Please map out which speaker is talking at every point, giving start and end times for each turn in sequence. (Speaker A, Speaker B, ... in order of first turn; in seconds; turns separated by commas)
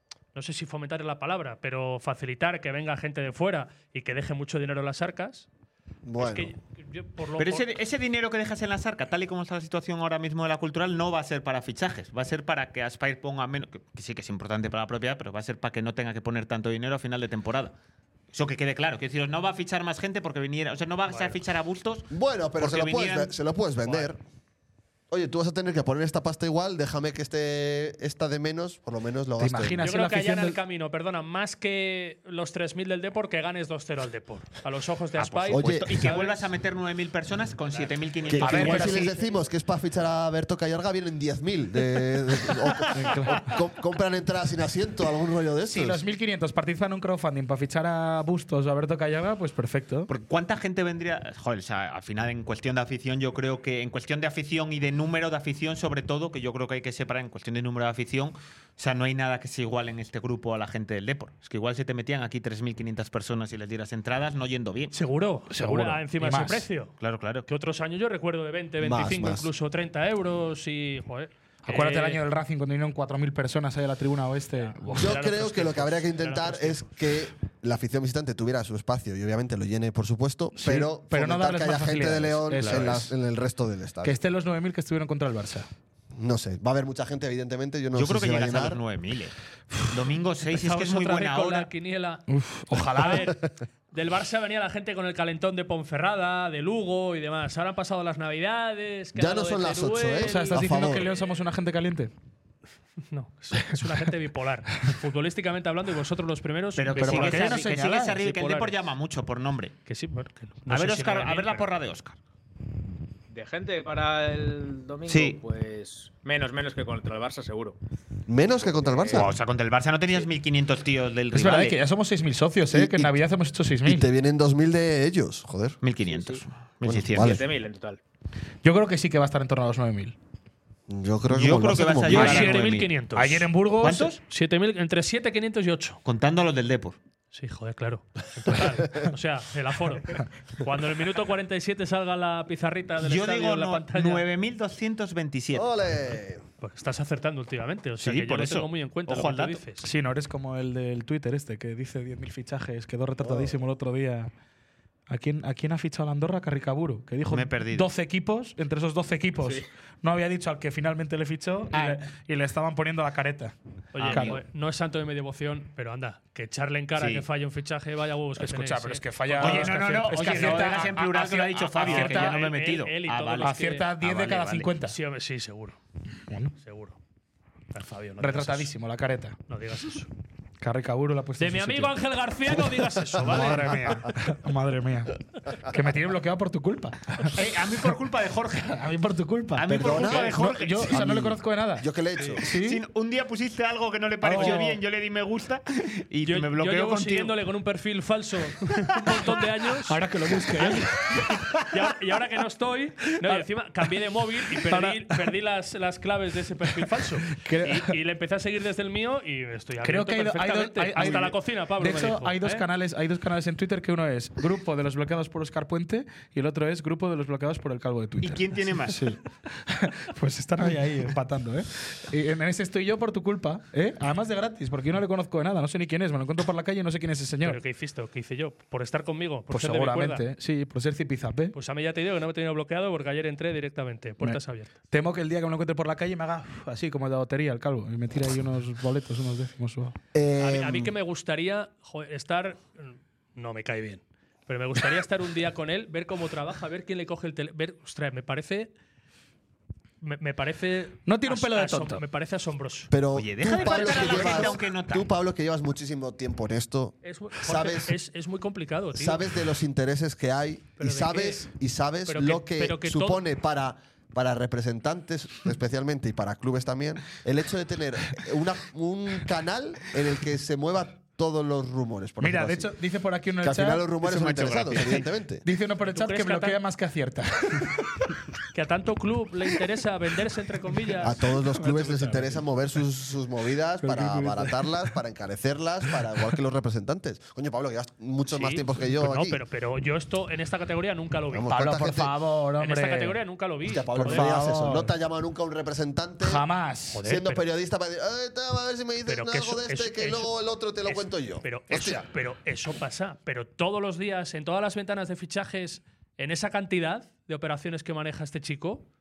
Speaker A: 0.3-5.5, Speaker B: 6.0-6.5, Speaker A: 6.2-7.7, Speaker C: 7.4-17.7, Speaker C: 18.3-23.3, Speaker A: 21.1-21.3, Speaker B: 22.1-24.2, Speaker B: 25.1-29.8, Speaker D: 29.4-30.6, Speaker A: 29.8-36.5, Speaker C: 35.2-39.1, Speaker B: 35.5-35.9, Speaker A: 37.7-39.4, Speaker B: 38.3-46.0, Speaker D: 38.4-39.1, Speaker D: 42.9-43.5, Speaker D: 45.7-50.1, Speaker C: 50.1-64.9, Speaker A: 64.9-72.2, Speaker D: 65.5-66.7, Speaker C: 67.0-67.5, Speaker B: 68.8-69.5, Speaker D: 71.7-75.2, Speaker A: 74.6-76.9, Speaker B: 75.0-84.2, Speaker D: 80.5-83.1, Speaker C: 82.6-83.0, Speaker D: 84.0-85.7, Speaker B: 86.1-88.8, Speaker C: 87.9-91.7, Speaker A: 90.6-92.2, Speaker D: 92.3-93.3, Speaker A: 93.0-93.4, Speaker A: 93.9-101.4, Speaker B: 99.1-101.0, Speaker D: 100.2-102.1, Speaker A: 103.1-108.8, Speaker C: 106.8-109.7, Speaker D: 107.0-108.2, Speaker A: 109.8-111.7, Speaker C: 110.7-112.2, Speaker E: 113.3-117.8, Speaker C: 115.1-115.4, Speaker B: 118.3-119.3, Speaker E: 118.6-119.4, Speaker C: 119.1-121.8, Speaker D: 121.3-124.1, Speaker B: 122.7-123.2, Speaker B: 123.8-125.8, Speaker C: 125.8-127.4, Speaker E: 126.1-126.4, Speaker B: 126.8-127.4, Speaker E: 127.2-128.0, Speaker D: 128.6-130.1, Speaker B: 130.9-132.5, Speaker C: 131.3-132.9, Speaker A: 132.1-133.5, Speaker D: 132.1-132.6, Speaker D: 133.1-134.1, Speaker C: 133.8-134.2, Speaker A: 134.2-136.0, Speaker C: 136.1-136.9, Speaker A: 137.3-144.2, Speaker C: 143.0-145.7, Speaker B: 145.5-146.4, Speaker A: 146.6-149.9, Speaker C: 148.0-149.6, Speaker D: 149.8-154.3, Speaker B: 153.2-153.6, Speaker D: 155.1-163.5, Speaker C: 157.3-157.9, Speaker C: 161.7-162.0, Speaker A: 163.9-173.9, Speaker C: 164.0-164.4, Speaker D: 164.1-164.4, Speaker C: 166.9-167.2, Speaker D: 168.4-171.1, Speaker C: 169.4-174.7, Speaker D: 171.8-172.5, Speaker D: 173.4-175.0, Speaker A: 174.8-175.8, Speaker A: 176.6-177.0, Speaker A: 177.7-178.7, Speaker D: 178.2-179.3, Speaker A: 179.5-180.1, Speaker D: 180.6-182.0, Speaker A: 181.4-184.0, Speaker D: 183.2-187.4, Speaker C: 187.3-188.7, Speaker D: 188.7-191.9, Speaker C: 189.6-191.0, Speaker B: 189.6-192.4, Speaker D: 192.4-192.8, Speaker C: 192.4-197.3, Speaker D: 194.2-194.8, Speaker A: 194.4-194.7, Speaker A: 196.2-200.0, Speaker D: 199.9-201.5, Speaker A: 200.6-200.8, Speaker A: 201.7-212.7, Speaker D: 204.5-205.3, Speaker D: 207.3-207.9, Speaker D: 209.8-227.6, Speaker C: 218.2-219.0, Speaker A: 227.4-230.2, Speaker D: 229.5-231.5, Speaker A: 231.5-234.7, Speaker D: 234.9-239.9, Speaker B: 240.1-240.9, Speaker A: 240.4-248.7, Speaker A: 250.0-252.9, Speaker D: 251.1-252.0, Speaker B: 252.9-258.0, Speaker C: 253.1-255.1, Speaker A: 253.6-254.5, Speaker A: 257.0-259.2, Speaker B: 258.9-272.7, Speaker A: 260.8-261.4, Speaker A: 262.1-263.2, Speaker D: 272.2-273.9, Speaker B: 273.4-275.4, Speaker C: 274.0-275.1, Speaker D: 275.4-277.9, Speaker A: 275.8-276.6, Speaker A: 278.5-282.4, Speaker B: 281.0-289.4, Speaker D: 281.6-282.1, Speaker D: 283.8-284.7, Speaker A: 288.3-291.5, Speaker B: 291.3-292.1, Speaker D: 291.5-293.2, Speaker A: 292.6-294.4, Speaker B: 293.6-296.4, Speaker D: 294.0-294.9, Speaker D: 296.2-297.1, Speaker A: 296.9-297.4, Speaker B: 297.0-302.1, Speaker A: 299.1-300.3, Speaker A: 300.8-308.9